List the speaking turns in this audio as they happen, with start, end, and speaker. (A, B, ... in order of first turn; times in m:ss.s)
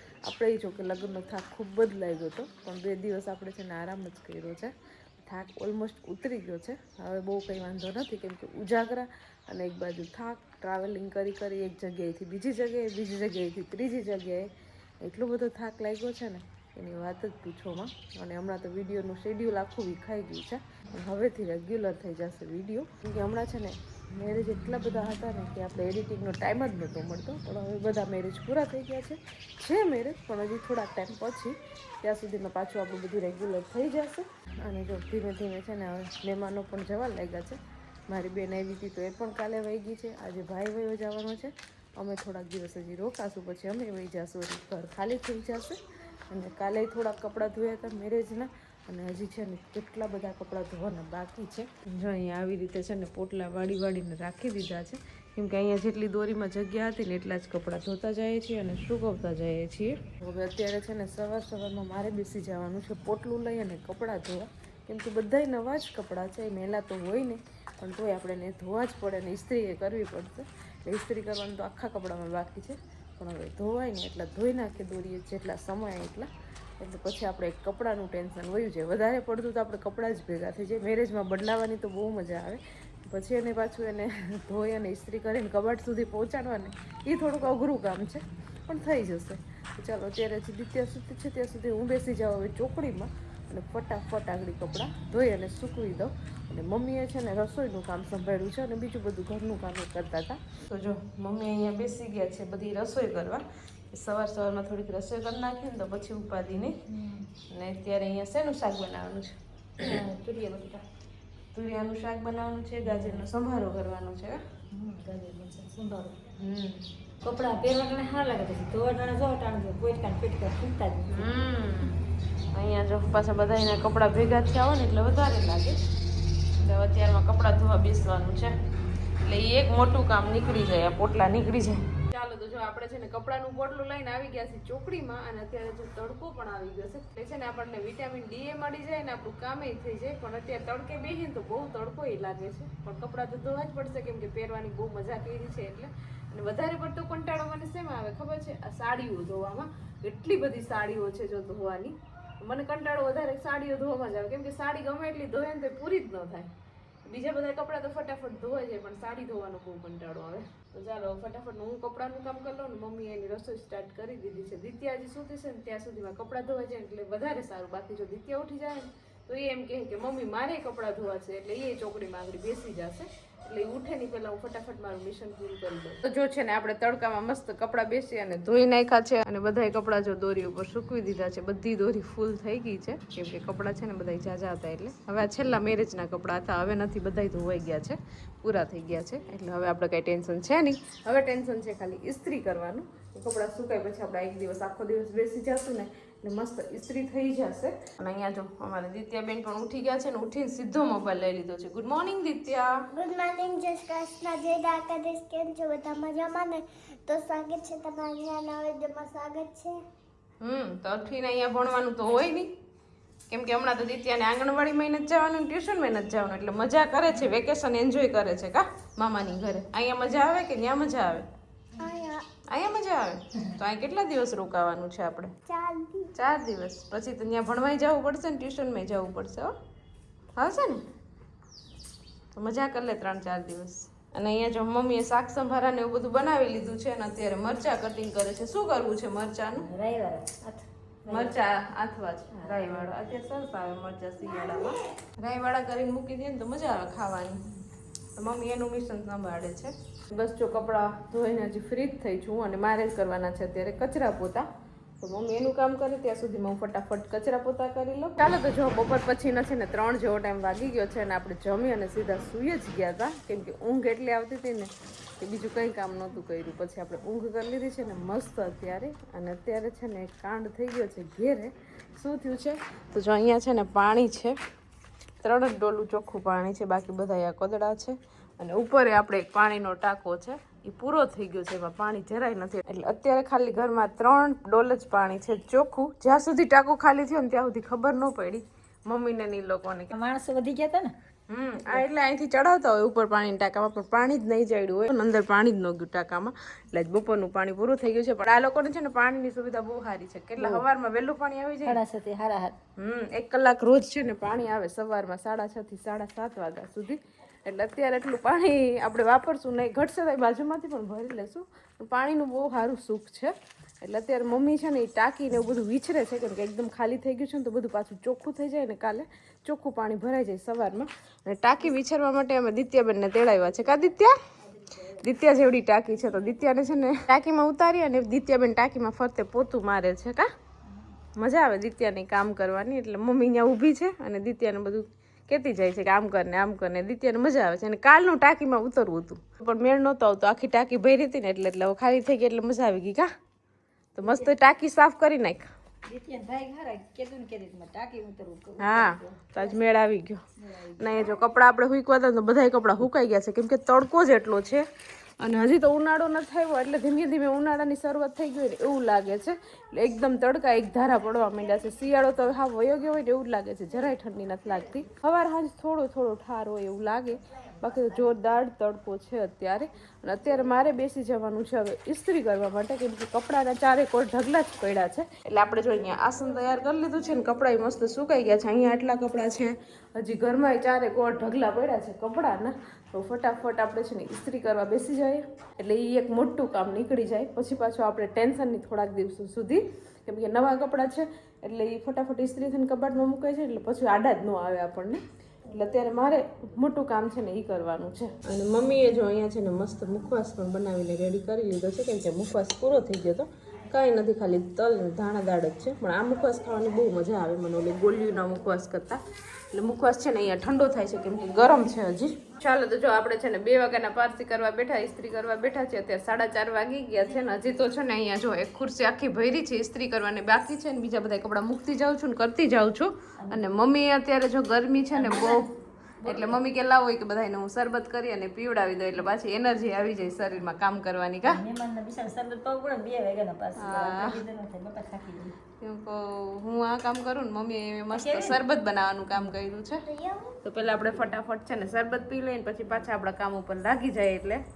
0:00.2-0:14.5 A
0:15.0-0:37.6 A
0:38.1-0:45.8 A
0:46.3-1:46.8 A
1:46.9-1:47.3 B
1:47.5-1:49.4 A
1:49.8-1:50.8 B
1:51.5-1:54.4 A
1:52.8-1:53.2 B
1:54.7-1:56.2 B
1:56.4-1:56.8 A
1:57.2-2:01.4 B
2:01.1-2:02.0 A
2:02.5-2:05.8 A
2:06.6-2:08.5 A
2:09.2-2:36.5 A
2:37.0-3:22.7 A
3:22.9-3:29.8 C
3:30.4-3:32.5 A
3:33.3-3:41.3 A
3:41.8-3:42.2 C
3:42.5-3:45.3 A
3:45.4-3:46.1 C
3:46.1-3:49.5 A
3:50.4-3:50.8 A
3:52.3-3:59.7 A
3:59.5-4:01.4 B
4:01.1-4:07.4 A
4:02.3-4:02.9 B
4:08.2-4:14.4 A
4:15.0-4:34.4 A
4:35.2-4:49.9 A
4:49.9-4:50.9 B
4:51.3-5:01.8 A
5:00.4-5:00.6 B
5:01.6-5:02.6 B
5:02.8-5:24.2 A
5:24.4-5:25.1 B
5:24.9-5:30.3 A
5:30.7-5:30.9 B
5:31.2-5:43.1 A
5:44.0-5:45.5 A
5:44.0-5:44.3 B
5:45.8-5:49.6 B
5:48.6-5:50.2 A
5:50.4-5:51.2 B
5:50.8-5:54.6 A
5:55.2-6:49.0 A
6:49.5-7:05.5 A
7:03.2-7:03.5 B
7:04.9-7:05.5 B
7:06.0-7:06.4 B
7:06.0-7:11.4 A
7:11.2-7:15.3 B
7:13.6-7:14.2 A
7:15.6-7:19.8 A
7:17.9-7:18.4 B
7:19.8-7:20.4 C
7:20.4-7:24.4 A